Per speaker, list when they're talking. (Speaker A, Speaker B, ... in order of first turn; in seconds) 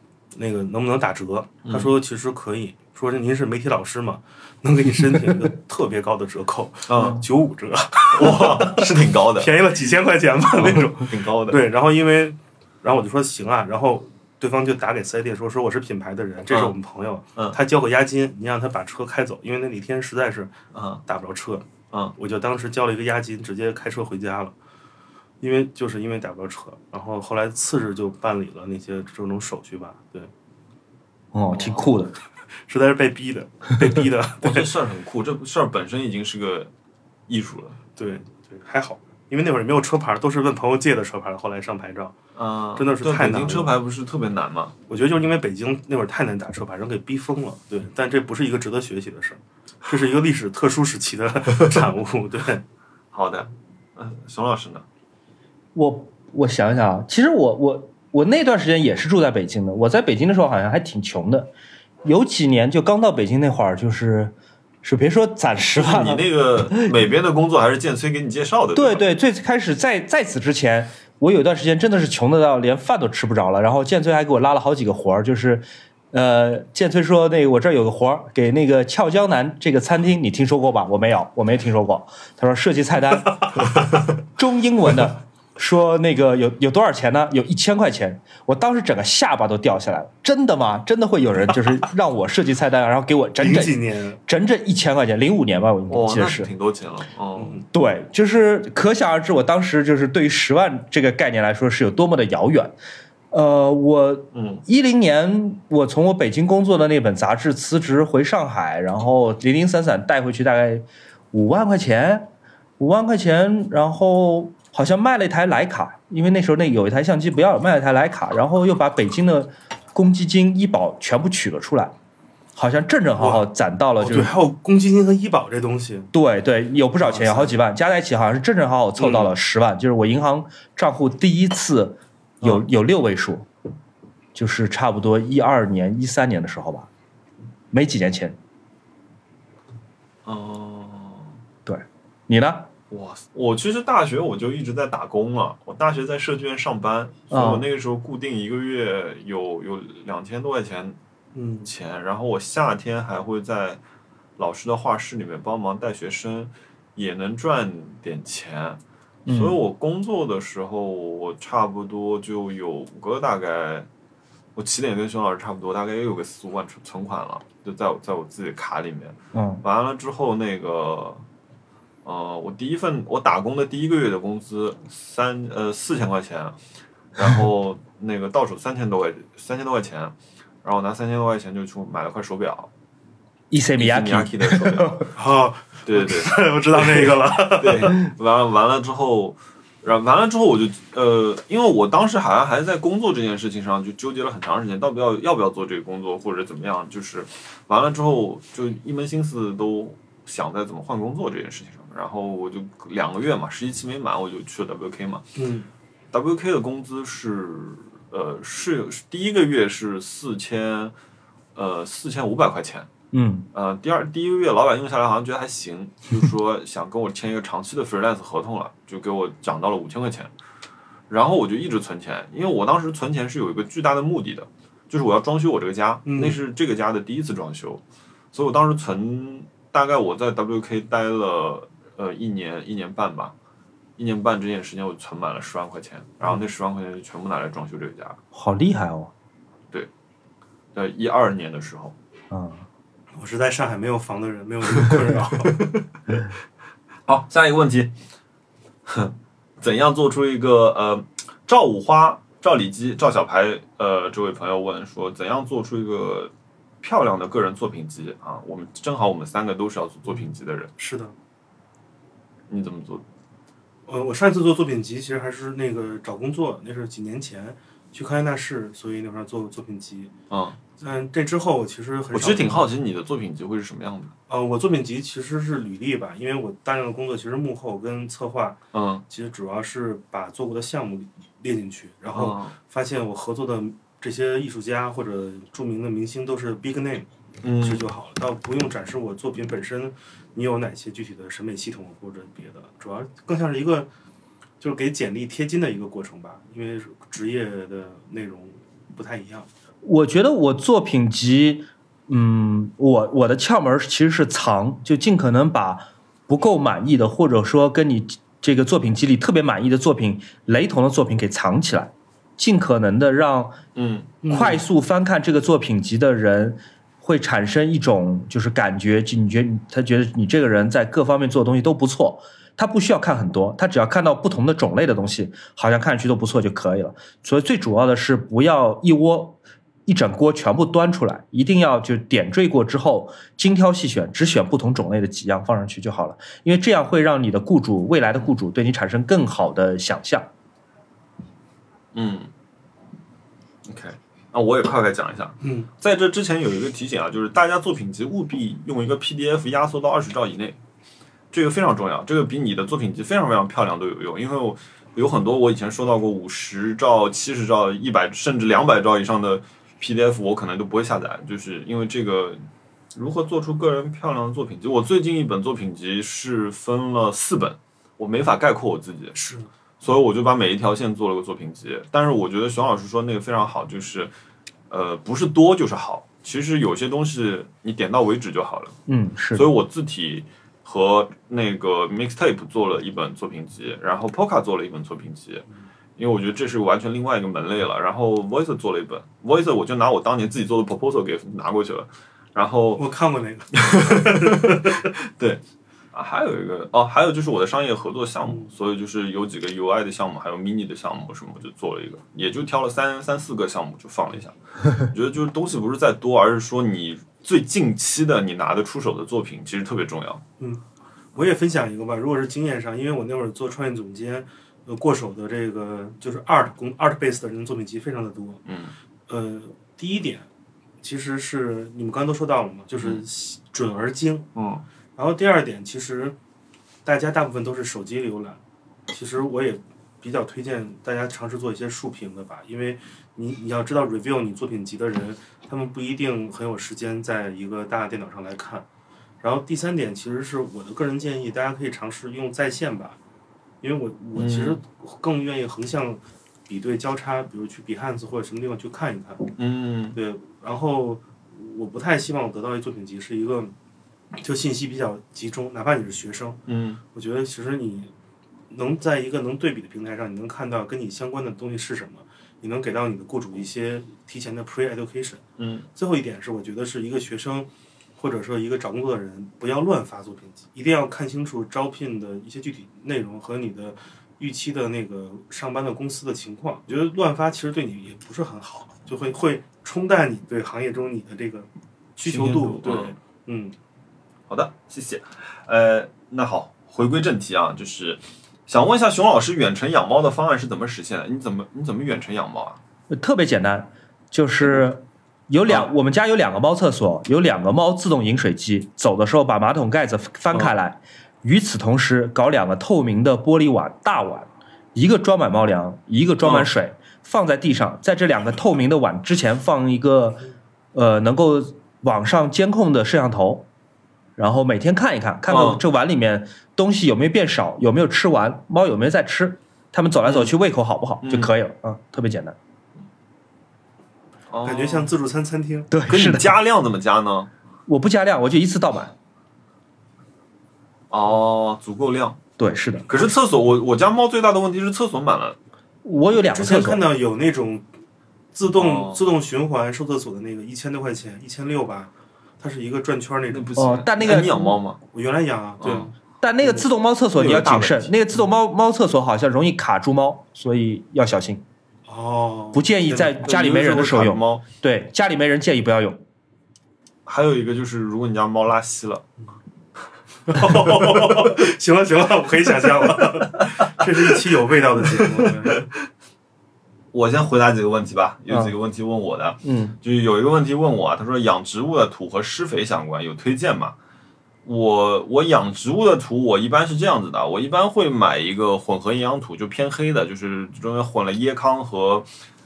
Speaker A: 0.3-20.5, 21.1-24.5, 25.4-30.3, 32.6-34.7, 38.0-42.2, 42.8-43.7, 44.9-52.6, 93.4-94.2, 97.3-97.7, 123.2-123.5, 124.0-126.1, 127.0-127.6, 129.0-129.3, 151.3-151.7, 185.2-187.9, 205.3-205.7, 226.1-226.4, 243.1-245.6, 260.8-261.1, 263.9-270.1, 270.8-272.6, 274.3-287.1, 287.6-293.9, 294.6-299.5, 314.2-314.6, 345.4-345.7, 369.1-369.5, 392.8-394.8, 411.1-418.4, 419.1-420.2, 420.8-424.3, 424.9-426.1, 426.8-438.6, 439.2-443.0, 443.6-449.3, 449.9-453.5, 454.2-456.4, 456.9-457.9, 458.5-465.2, 465.7-483.5, 524.4-525.7, 536.3-537.6, 538.3-544.3, 544.9-546.7, 551.9-553.2, 560.3-565.7
Speaker B: 1.6-1.9, 6.9-7.2, 8.1-9.5, 10.6-11.6, 20.7-21.0, 31.5-31.9, 34.4-36.7, 37.3-37.8, 42.4-44.7, 53.1-54.8, 65.8-69.0, 95.9-97.6, 104.3-104.6, 140.2-141.3, 142.9-151.0, 151.6-153.8, 154.4-163.9, 164.6-171.2, 172.0-176.6, 177.1-182.7, 183.8-185.1, 185.8-205.2, 206.1-210.9, 211.5-212.9, 213.5-220.3, 221.1-227.8, 228.3-233.3, 234.0-238.2, 240.7-241.9, 247.1-247.9, 248.9-260.7, 262.5-263.0, 270.3-270.6, 272.1-274.1, 278.7-279.0, 282.1-282.5, 287.4-287.8, 313.7-314.2, 341.9-342.3, 343.6-350.6, 351.3-362.4, 362.9-369.2, 369.8-374.1, 374.7-378.8, 379.3-385.4, 386.0-392.8, 393.5-395.4, 395.9-410.2, 418.4-418.7, 424.3-424.6, 444.1-444.6, 449.4-450.0, 456.5-456.8, 465.4-465.7, 482.0-482.9, 484.3-492.6, 506.2-506.5, 515.3-515.6, 520.0-520.3, 521.0-521.3, 524.3-524.9, 525.9-527.3, 530.9-532.2, 532.9-535.4, 538.5-539.0, 543.3-544.8, 545.6-545.9, 547.1-547.9, 553.2-554.4, 557.0-559.0, 565.0-565.6, 566.9-573.7, 574.4-582.1
Speaker C: 31.3-32.1, 55.7-61.5, 62.0-66.9, 68.7-83.5, 84.2-96.5, 97.7-102.8, 103.3-121.9, 122.5-124.3, 126.1-133.5, 134.3-136.9, 137.7-138.4, 141.7-142.7, 147.3-147.6, 159.2-159.6, 169.3-169.6, 183.5-185.1, 213.1-213.5, 238.3-239.1, 242.3-242.7, 299.8-313.6, 314.3-340.3, 378.9-379.5, 492.9-510.2, 510.7-513.5, 514.2-522.4, 525.7-526.3, 527.7-528.9, 532.4-532.9, 535.8-536.8, 543.6-544.6, 546.2-551.4, 552.5-556.0, 569.4-569.8